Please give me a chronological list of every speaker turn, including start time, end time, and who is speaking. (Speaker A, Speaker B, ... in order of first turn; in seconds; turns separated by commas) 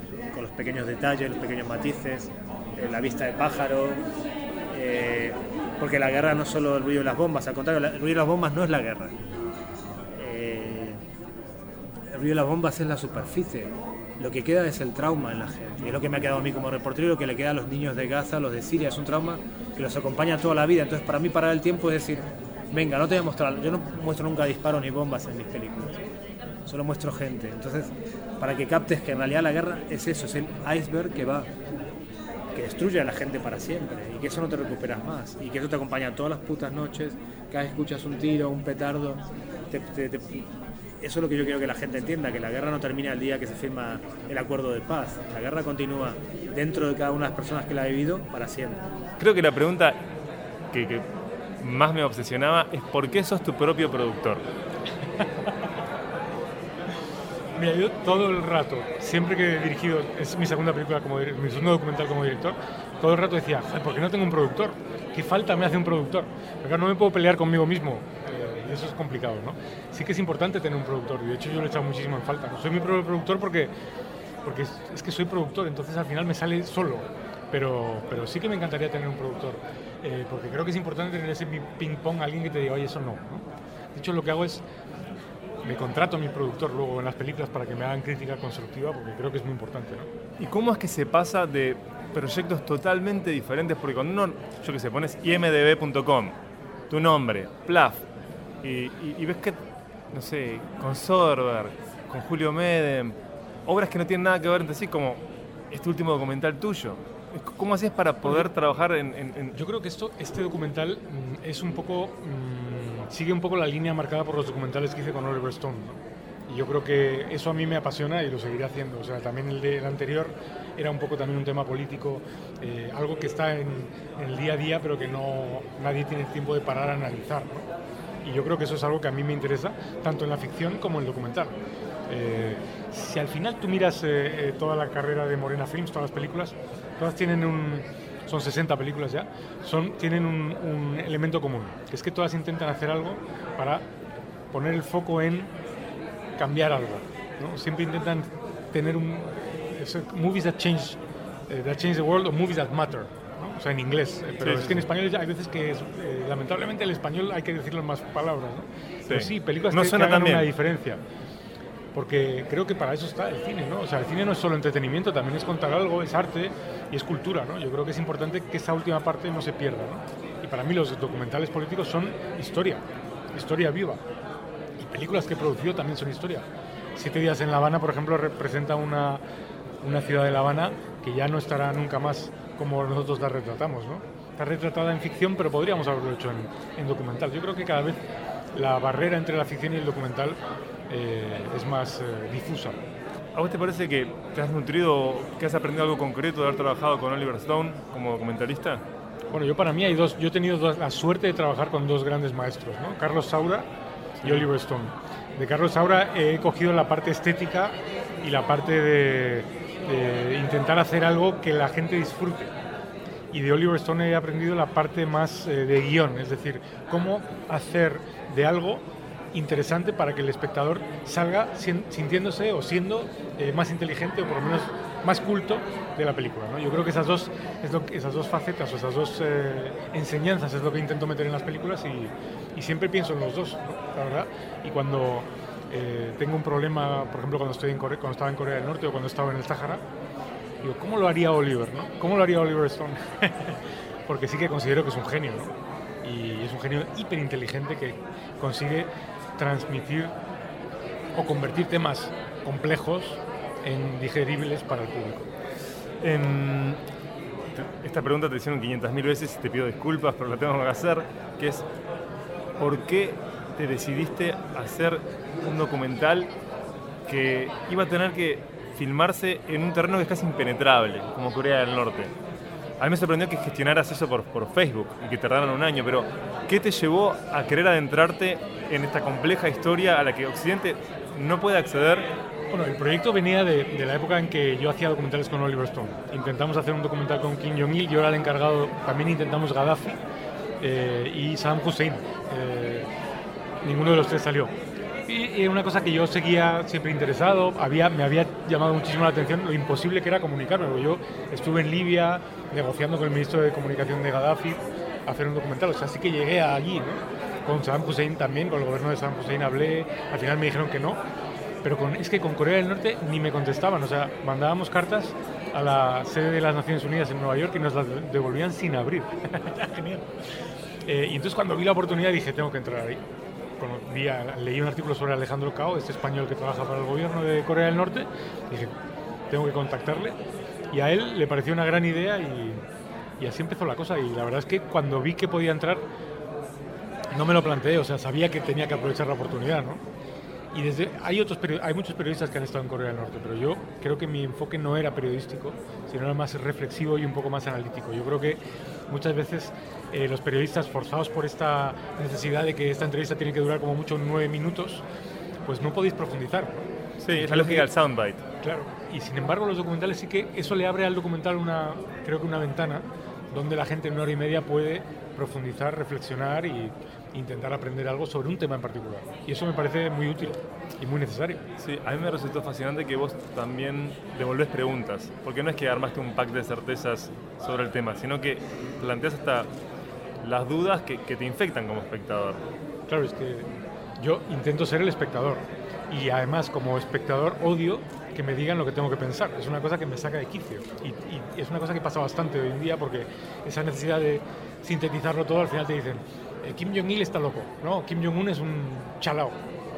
Speaker A: 0.3-4.0, Speaker A: 4.7-9.2, Speaker A: 10.1-11.0, Speaker A: 12.1-26.0, Speaker A: 26.7-31.5, Speaker A: 32.5-40.5, Speaker A: 41.0-48.8, Speaker B: 49.2-50.0, Speaker B: 50.7-51.1, Speaker B: 51.6-54.4, Speaker C: 57.5-73.7, Speaker C: 74.4-84.6, Speaker C: 85.6-90.1, Speaker B: 90.4-96.4, Speaker B: 96.9-98.0, Speaker B: 98.6-99.6, Speaker B: 100.1-109.6, Speaker C: 109.6-127.7, Speaker C: 128.2-131.6, Speaker C: 132.1-143.9, Speaker C: 144.5-145.5, Speaker C: 146.4-151.0, Speaker C: 151.5-161.0, Speaker B: 154.4-154.9, Speaker B: 159.1-160.5, Speaker C: 161.9-174.0, Speaker C: 174.8-179.2, Speaker C: 179.8-188.0, Speaker C: 188.5-192.8, Speaker B: 193.3-198.8, Speaker C: 199.3-203.7, Speaker B: 204.2-204.5, Speaker C: 204.2-212.5, Speaker C: 213.3-239.8, Speaker C: 240.6-250.1, Speaker C: 251.2-255.3, Speaker B: 256.0-256.8, Speaker B: 257.5-261.6, Speaker B: 262.6-266.3, Speaker B: 267.1-272.1, Speaker B: 272.8-282.1, Speaker C: 282.5-290.0, Speaker C: 290.6-292.9, Speaker C: 293.6-294.5, Speaker C: 295.1-311.0, Speaker C: 311.6-320.1, Speaker C: 320.9-323.0, Speaker C: 323.6-328.7, Speaker C: 329.3-330.2, Speaker C: 330.7-332.6, Speaker C: 333.2-335.8, Speaker C: 337.1-339.8, Speaker C: 340.5-354.8, Speaker C: 355.4-357.7, Speaker B: 357.0-358.2, Speaker C: 358.4-371.4, Speaker B: 371.6-379.5, Speaker B: 380.2-382.4, Speaker C: 382.9-383.5, Speaker C: 384.0-399.4